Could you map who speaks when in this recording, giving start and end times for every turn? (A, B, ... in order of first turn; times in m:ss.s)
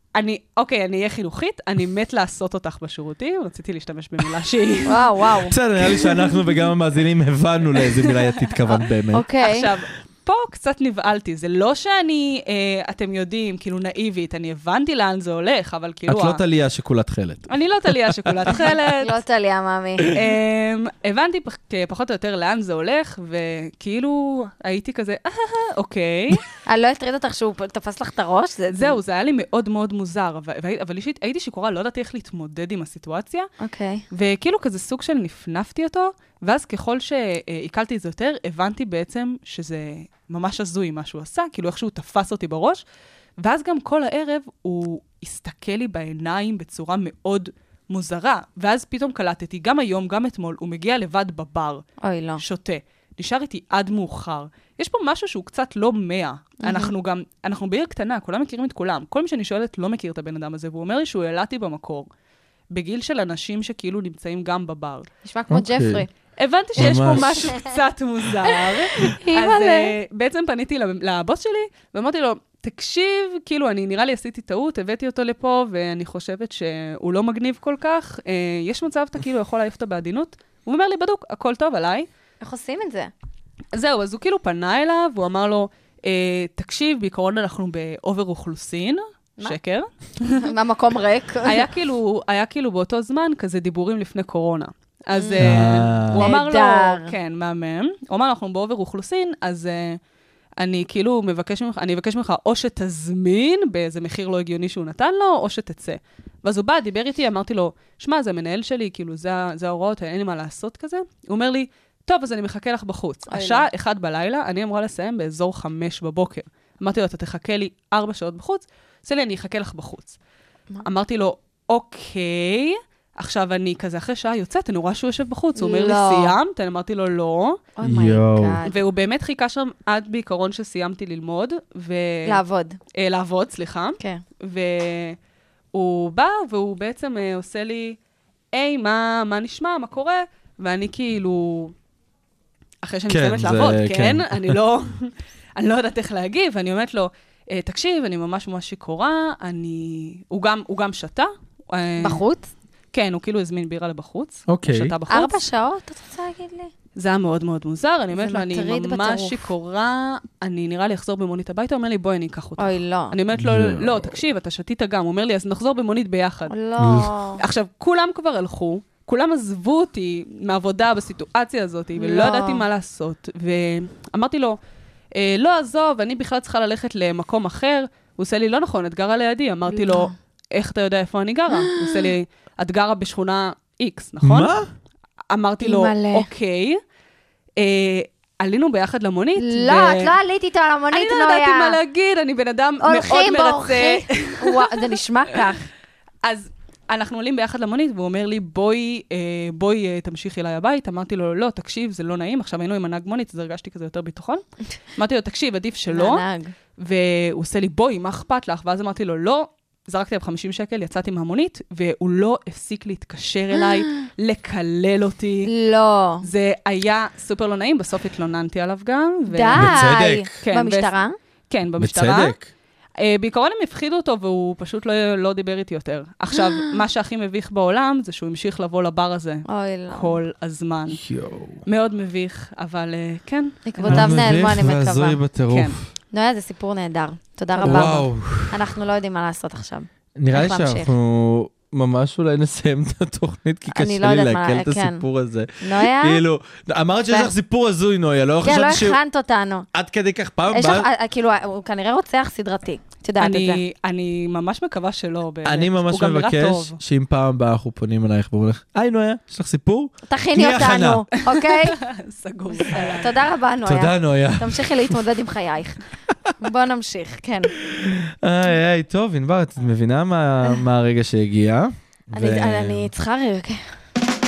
0:00.2-0:05.3 A
0:04.9-0:05.6 B
0:05.5-0:09.2 C
0:05.9-0:06.3 A
0:07.9-0:08.8 A
0:09.1-0:09.7 B
0:09.4-0:16.4 A
0:16.1-0:18.6 C
0:17.5-0:19.2 A
0:19.0-0:20.1 B
0:20.1-0:26.4 A
0:26.6-0:28.9 B
0:28.8-0:33.5 A
0:33.6-0:34.0 B
0:34.1-0:42.8 A
0:43.4-0:51.8 A
0:52.0-0:52.4 B
0:52.4-1:02.1 A
0:56.6-0:56.9 B
1:02.7-1:05.1 A
1:05.2-1:06.1 B
1:05.5-1:06.0 C
1:06.3-1:22.1 A
1:06.8-1:07.5 C
1:09.0-1:09.9 B
1:22.4-1:23.1 B
1:23.7-1:30.4 A
1:30.3-1:31.6 B
1:31.4-1:40.0 A
1:35.1-1:35.5 B
1:35.4-1:36.3 C
1:36.2-1:37.1 B
1:40.6-2:00.2 A
1:53.3-1:53.7 B
2:00.8-2:07.6 A
2:05.6-2:06.4 B
2:07.8-2:08.7 B
2:07.8-2:08.6 C
2:08.6-2:12.4 A
2:12.3-2:12.8 B
2:13.0-2:15.2 A
2:15.7-2:18.0 A
2:18.5-2:21.7 A
2:22.8-2:32.2 A
2:23.1-2:24.6 C
2:32.0-2:32.5 B
2:32.9-2:35.4 A
2:34.5-2:34.9 C
2:35.1-2:36.7 B
2:37.0-2:46.6 A
2:38.1-2:39.4 B
2:42.6-2:43.1 B
2:43.4-2:44.2 C
2:46.5-2:47.4 B
2:46.8-2:47.1 C
2:47.4-2:54.6 A
2:52.0-2:52.6 B
2:55.2-3:04.6 A
2:59.7-3:00.1 B
3:01.6-3:02.1 B
3:04.2-3:04.7 C
3:05.3-3:06.8 A
3:05.6-3:06.3 B
3:07.6-3:10.1 A
3:09.4-3:11.8 B
3:10.9-3:15.0 A
3:12.8-3:15.7 B
3:16.2-3:26.2 A
3:25.9-3:26.5 B
3:26.8-3:35.5 A
3:35.4-3:36.2 B
3:36.2-3:39.9 A
3:39.3-3:41.1 B
3:39.6-3:40.3 C
3:40.4-3:41.0 A
3:41.5-3:42.4 A
3:41.8-3:42.5 C
3:43.0-3:51.0 A
3:49.4-3:50.2 B
3:50.9-3:51.6 C
3:51.6-3:54.3 A
3:53.7-3:55.2 B
3:53.9-3:55.9 C
3:55.5-3:55.8 A
3:56.1-4:00.9 B
3:57.6-3:57.9 A
3:57.6-3:58.6 C
4:00.2-4:09.0 C
4:03.7-4:05.0 B
4:05.6-4:06.2 B
4:08.4-4:09.7 B
4:09.7-4:10.9 C
4:10.5-4:13.6 B
4:13.2-4:16.8 A
4:15.4-4:21.0 C
4:20.1-4:21.8 B
4:21.3-4:23.2 A
4:22.5-4:25.8 B
4:23.6-4:24.9 C
4:26.4-4:27.5 B
4:27.8-4:32.9 C
4:32.1-4:33.7 B